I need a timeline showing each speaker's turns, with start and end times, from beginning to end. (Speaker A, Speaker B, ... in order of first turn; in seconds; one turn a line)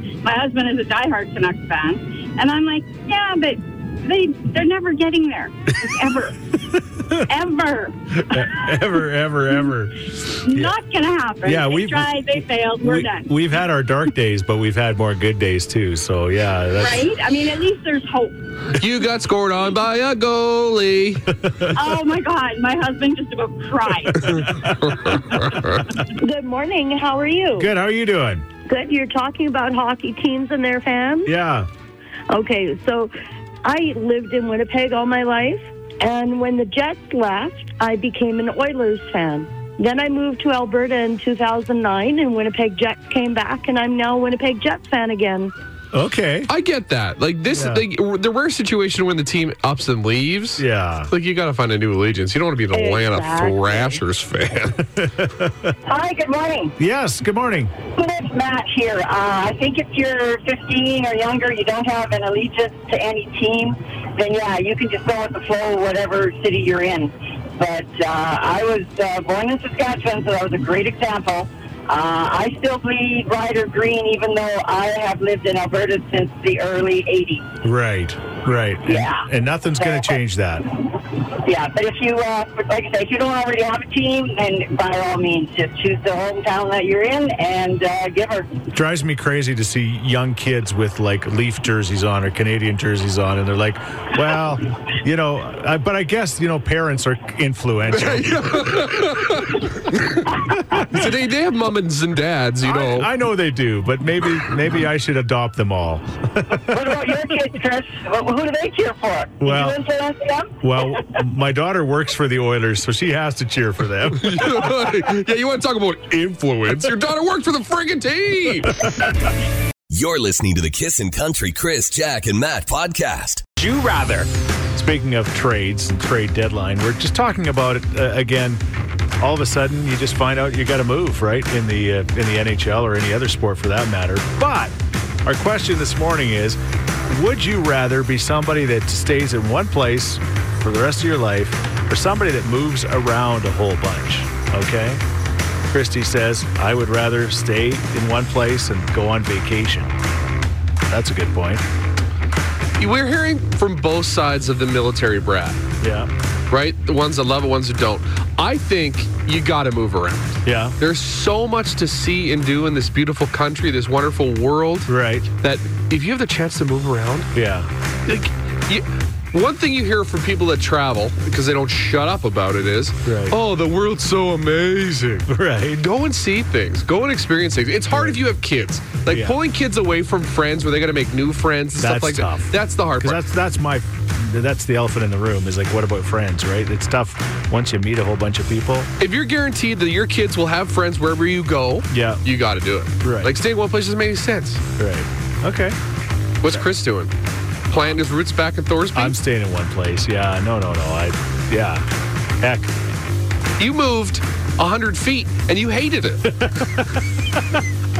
Speaker A: 0.2-6.5
Speaker A: 7.1-8.9
Speaker B: 8.2-10.7
Speaker A: 10.4-13.4
Speaker B: 11.4-17.1
Speaker A: 16.8-18.4
Speaker C: 18.7-21.3
Speaker A: 21.7-24.5
Speaker C: 24.4-25.9
Speaker D: 26.1-27.7
Speaker B: 27.6-28.4
Speaker D: 28.7-31.3
Speaker B: 31.2-31.7
Speaker D: 32.3-33.1
Speaker D: 33.6-45.5
Speaker B: 45.9-46.5
Speaker C: 46.5-54.8
Speaker B: 47.5-47.8
Speaker B: 50.6-51.1
Speaker D: 52.7-53.9
Speaker B: 54.9-55.7
Speaker E: 55.9-56.7
Speaker B: 56.8-57.7
Speaker E: 57.9-77.5
Speaker B: 77.6-80.7
Speaker E: 78.8-79.3
Speaker E: 79.8-80.1
Speaker E: 81.4-88.6
Speaker B: 88.7-99.1
Speaker C: 97.9-103.1
Speaker B: 100.3-101.1
Speaker B: 102.6-107.4
Speaker E: 106.5-111.1
Speaker B: 109.4-109.8
Speaker B: 110.6-114.9
Speaker C: 114.2-118.9
Speaker B: 118.8-119.1
Speaker F: 119.9-123.5
Speaker B: 123.6-128.6
Speaker B: 129.2-145.0
Speaker B: 145.7-149.9
Speaker B: 150.9-151.7
Speaker C: 152.8-155.6
Speaker B: 155.8-156.1
Speaker C: 156.5-167.3
Speaker B: 160.4-160.8
Speaker B: 164.9-165.3
Speaker B: 167.3-167.7
Speaker C: 168.1-183.2
Speaker B: 173.0-173.4
Speaker B: 175.3-175.8
Speaker B: 177.9-178.2
Speaker B: 179.1-179.4
Speaker B: 181.8-188.9
Speaker C: 189.0-194.6
Speaker B: 191.9-192.2
Speaker B: 193.0-193.3
Speaker B: 194.8-195.8
Speaker C: 196.4-197.1
Speaker C: 197.7-199.2
Speaker B: 198.9-201.9
Speaker B: 202.4-202.7
Speaker C: 203.6-206.4
Speaker B: 206.3-207.6